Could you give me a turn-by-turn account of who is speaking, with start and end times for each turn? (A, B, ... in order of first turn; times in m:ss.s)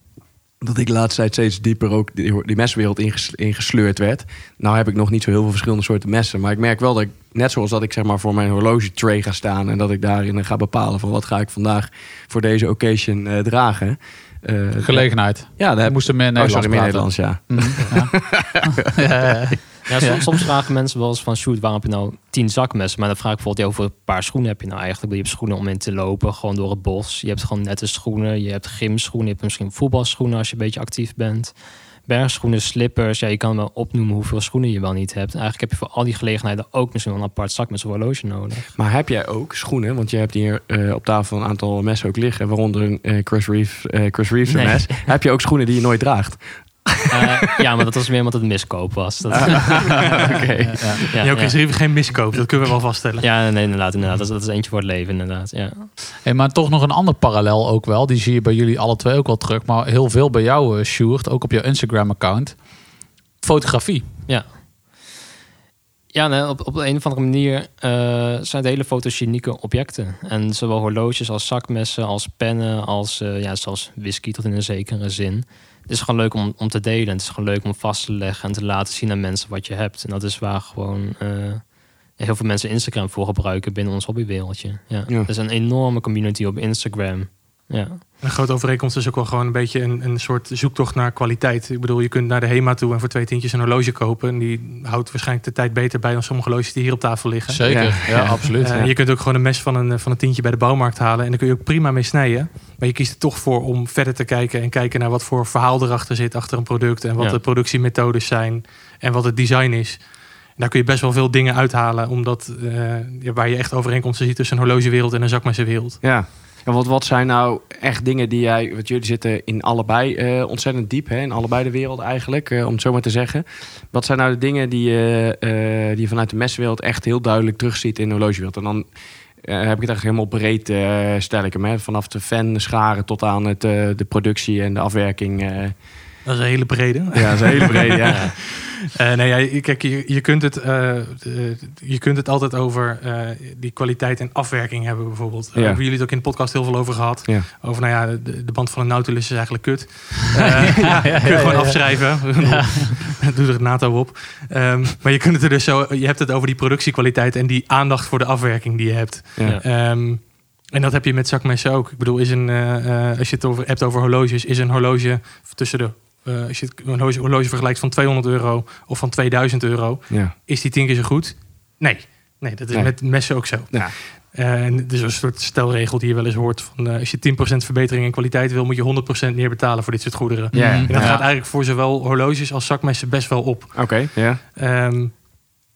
0:00.6-0:18.7 A
0:14.8-0:20.3 B
0:19.9-0:38.8 C
0:38.8-0:47.3 A
0:44.5-0:45.1 C
0:47.1-0:50.2 C
0:49.4-0:51.2 A
0:51.1-0:51.6 C
0:51.2-0:53.3 D
0:53.2-0:55.9 C
0:56.2-1:02.8 B
1:03.4-1:04.1 B
1:04.3-1:05.0 C
1:06.1-1:28.0 C
1:28.2-1:56.0 D
1:37.5-1:38.8 B
1:37.7-1:38.9 A
1:56.0-2:16.1 A
2:16.2-3:05.3 D
2:17.2-2:18.2 A
2:18.1-2:18.3 C
2:25.6-2:25.8 A
2:30.4-2:32.9 B
2:52.7-2:54.0 A
3:00.5-3:01.3 B
3:00.5-3:01.2 A
3:03.7-3:04.4 A